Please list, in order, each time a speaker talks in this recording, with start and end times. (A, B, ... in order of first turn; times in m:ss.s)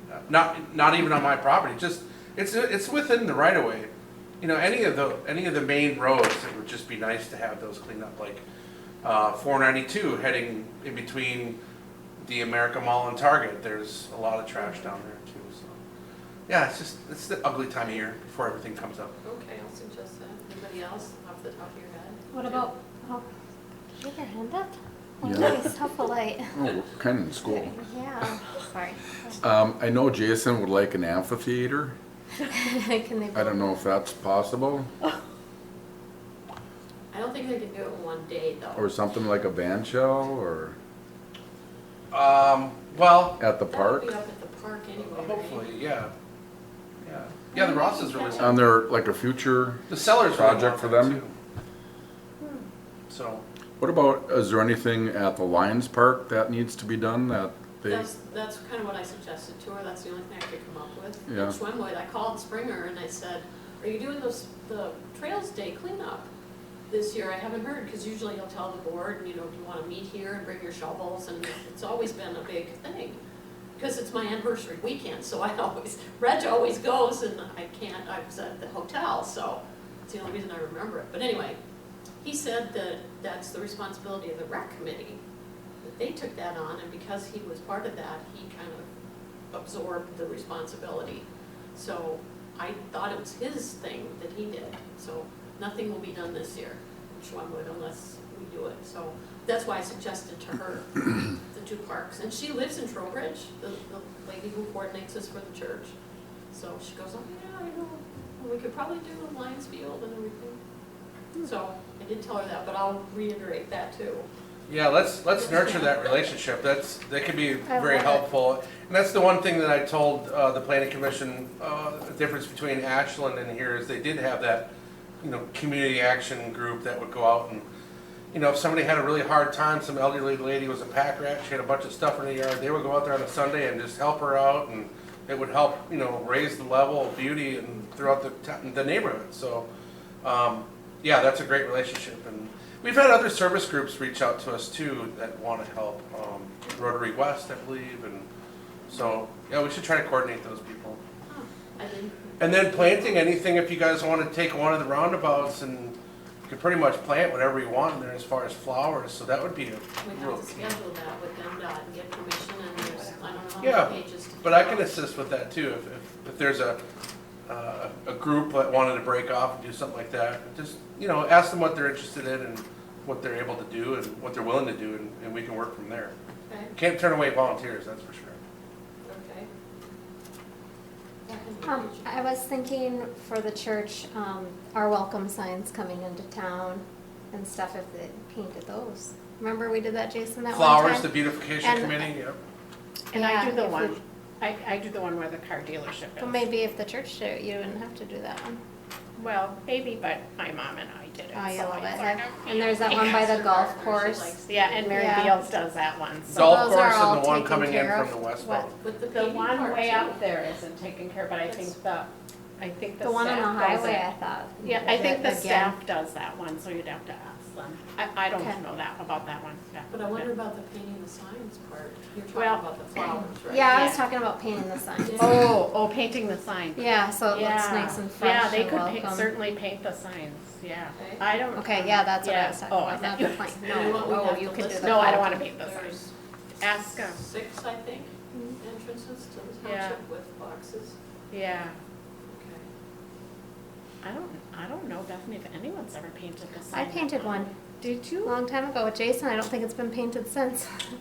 0:00.2-0:08.4 A
0:09.0-0:11.6 A
0:12.2-0:15.8 A
0:14.6-0:14.9 B
0:16.5-0:19.1 A
0:19.2-0:22.7 B
0:22.3-0:23.2 C
0:23.9-0:26.6 C
0:25.2-0:25.7 D
0:26.6-0:27.7 D
0:27.4-0:29.4 C
0:29.4-0:31.9 D
0:32.5-0:33.8 C
0:33.3-0:34.9 D
0:37.1-0:38.9 B
0:38.8-0:40.7 D
0:42.1-0:43.4 A
0:43.4-0:44.1 D
0:43.7-0:45.7 B
0:45.0-0:46.1 A
0:47.0-0:48.6 A
0:47.5-0:48.6 B
0:48.4-0:51.2 D
0:49.9-0:51.3 A
0:52.4-0:52.6 E
0:53.1-0:53.4 A
0:53.8-0:58.0 D
0:57.8-1:06.3 B
1:01.3-1:01.5 D
1:06.9-1:13.2 B
1:13.8-1:21.6 B
1:22.2-1:25.2 B
1:25.8-1:28.9 B
1:29.5-1:45.9 B
1:46.5-1:50.6 B
1:51.4-1:54.3 B
1:54.7-2:04.7 A
1:55.4-1:56.1 B
1:57.7-1:58.2 C
2:05.2-2:07.6 A
2:08.3-2:19.6 A
2:20.2-2:28.2 A
2:28.9-2:31.0 A
2:31.2-2:33.3 B
2:32.4-2:36.0 A
2:36.5-2:40.8 A
2:40.0-2:44.9 B
2:43.6-2:46.8 A
2:47.5-2:56.1 A
2:56.5-2:56.7 B
2:56.7-2:58.4 A
2:59.0-2:59.5 B
3:01.2-3:02.2 B
3:01.6-3:12.1 C
3:10.5-3:12.4 A
3:13.1-3:16.4 E
3:13.1-3:14.0 C
3:16.2-3:18.6 C
3:19.2-3:23.2 E
3:21.3-3:24.4 C
3:22.5-3:25.0 B
3:24.4-3:26.6 E
3:24.9-3:25.4 C
3:26.3-3:28.7 A
3:26.3-3:28.7 C
3:28.7-3:30.2 B
3:29.1-3:34.0 E
3:31.4-3:31.7 B
3:33.0-3:35.8 C
3:34.6-3:40.3 E
3:39.9-3:44.0 B
3:42.3-3:44.0 E
3:43.4-3:45.5 C
3:45.0-3:45.4 B
3:45.2-3:56.0 E
3:46.8-3:49.3 C
3:50.9-3:51.2 B
3:51.5-3:55.2 C
3:53.7-3:56.1 B
3:56.6-3:57.2 E
3:56.8-4:01.0 B
3:58.3-3:58.6 C
3:59.6-4:00.0 E
4:01.3-4:01.8 E
4:02.3-4:02.6 B
4:04.0-4:08.4 E
4:06.7-4:07.5 C
4:08.2-4:10.7 C